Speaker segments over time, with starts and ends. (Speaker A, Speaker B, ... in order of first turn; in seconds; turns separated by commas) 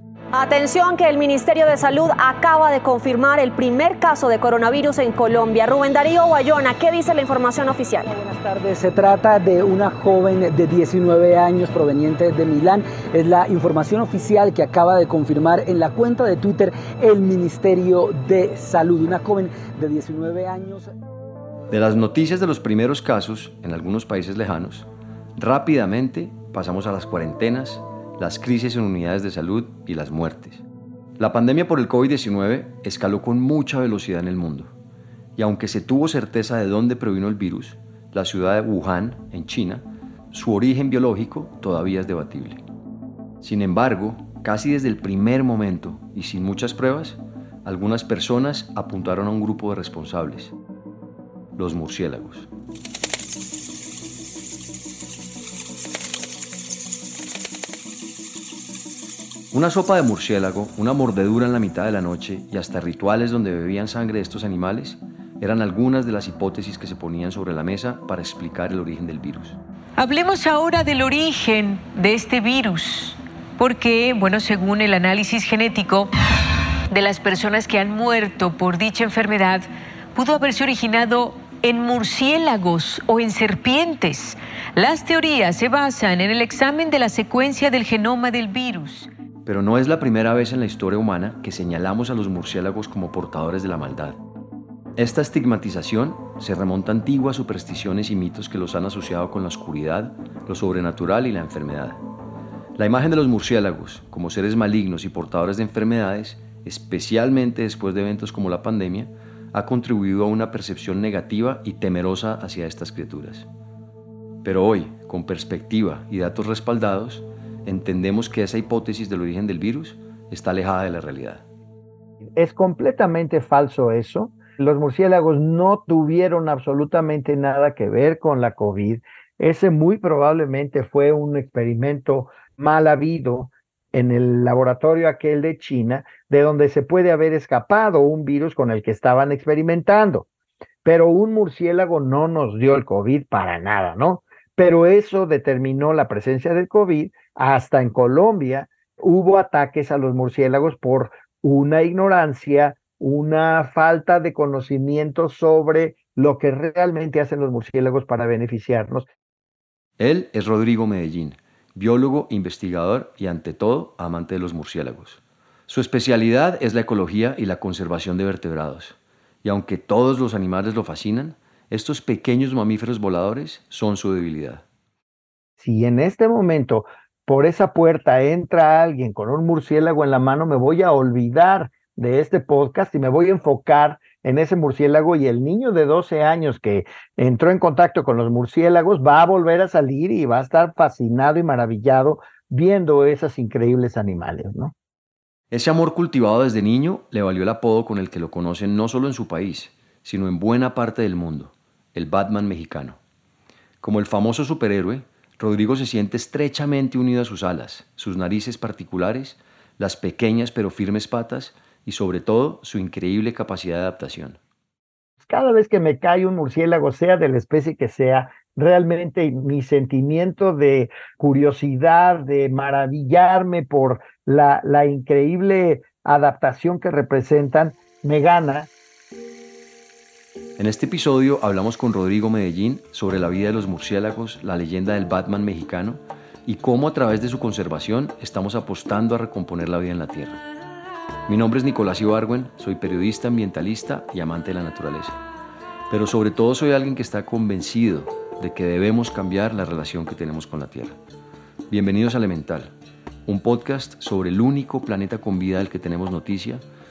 Speaker A: 0.3-8.1, Speaker B: 8.1-20.9, Speaker C: 21.7-30.6, Speaker C: 31.2-34.7, Speaker C: 35.4-42.6, Speaker C: 43.4-50.6, Speaker C: 51.6-52.5, Speaker C: 59.5-69.6, Speaker D: 70.0-76.1, Speaker D: 76.9-89.1, Speaker C: 89.5-94.2, Speaker C: 95.0-102.0, Speaker C: 102.8-113.5, Speaker C: 114.4-121.4, Speaker E: 122.4-140.3, Speaker E: 140.8-159.1, Speaker C: 160.0-174.6, Speaker E: 175.6-194.7, Speaker C: 195.5-203.0, Speaker C: 203.8-214.4, Speaker E: 215.2-228.7, Speaker C: 230.6-240.4, Speaker C: 241.3-245.2, Speaker C: 245.9-251.0, Speaker C: 251.7-252.7, Speaker C: 253.3-256.6